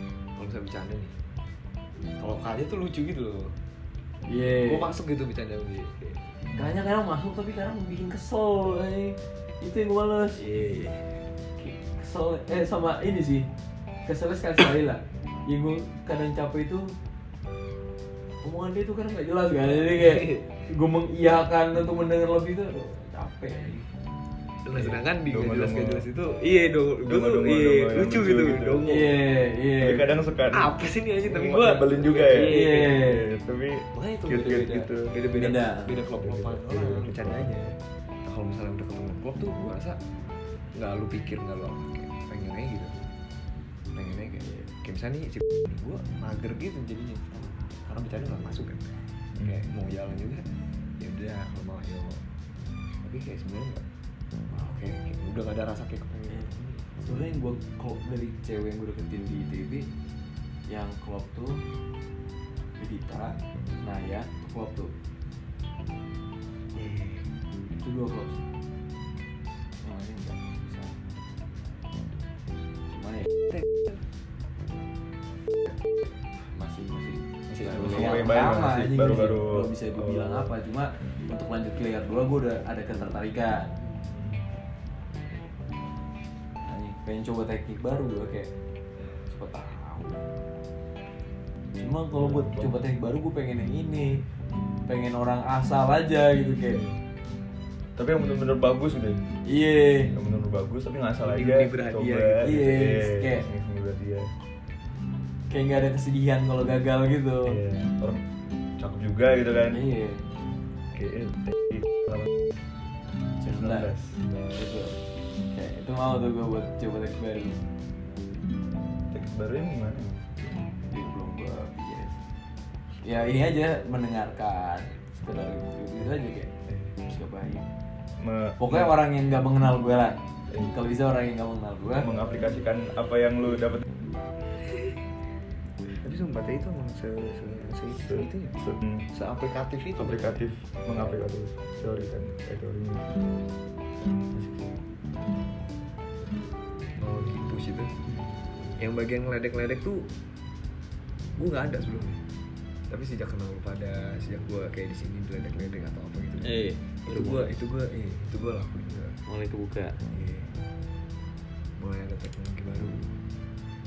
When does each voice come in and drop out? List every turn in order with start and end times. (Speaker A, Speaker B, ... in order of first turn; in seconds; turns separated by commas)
Speaker A: 0.4-1.1, Speaker A: 2.2-3.5, Speaker B: 4.2-4.9, Speaker A: 4.6-6.3, Speaker B: 6.5-10.4, Speaker A: 10.4-11.1, Speaker B: 11.6-13.5, Speaker B: 14.1-16.9, Speaker B: 18.4-23.9, Speaker A: 19.9-20.4, Speaker A: 24.6-29.2, Speaker C: 24.8-26.0, Speaker C: 27.0-29.1, Speaker B: 28.9-30.1, Speaker C: 29.8-35.2, Speaker A: 30.5-33.0, Speaker B: 32.4-33.2, Speaker A: 33.9-40.0, Speaker B: 35.3-36.0, Speaker C: 36.1-37.5, Speaker A: 40.7-42.9, Speaker A: 43.9-50.5, Speaker A: 51.0-52.2, Speaker A: 53.0-53.8, Speaker A: 54.5-56.9, Speaker B: 56.3-59.9, Speaker B: 60.7-61.6, Speaker B: 62.8-64.9, Speaker A: 66.7-67.3, Speaker B: 67.8-68.4, Speaker B: 69.8-71.0, Speaker B: 72.9-73.3, Speaker B: 76.4-83.7, Speaker A: 77.5-78.3, Speaker C: 77.6-80.5, Speaker C: 84.1-84.4, Speaker B: 86.6-88.5, Speaker B: 89.3-90.2, Speaker B: 91.7-94.2, Speaker C: 92.1-92.8, Speaker B: 94.9-96.8, Speaker C: 98.0-99.2, Speaker B: 99.4-100.1, Speaker C: 100.1-104.3, Speaker A: 101.2-102.6, Speaker B: 102.4-103.5, Speaker B: 105.5-107.6, Speaker C: 107.5-108.2, Speaker C: 108.8-109.8, Speaker B: 109.7-110.2, Speaker C: 110.9-112.2, Speaker B: 113.4-113.9, Speaker C: 113.6-114.2, Speaker B: 114.5-117.6, Speaker C: 119.1-120.2, Speaker B: 120.9-122.2, Speaker B: 123.0-126.5, Speaker B: 127.0-127.6, Speaker C: 128.2-128.9, Speaker B: 128.6-132.1, Speaker C: 132.0-133.8, Speaker A: 136.0-138.6, Speaker C: 138.1-138.9, Speaker A: 139.1-140.4, Speaker C: 140.0-143.1, Speaker A: 147.1-147.9, Speaker A: 148.8-150.1, Speaker A: 151.4-152.2, Speaker A: 152.9-159.2, Speaker B: 156.4-157.6, Speaker B: 159.2-160.0, Speaker A: 160.1-160.6, Speaker A: 161.8-163.1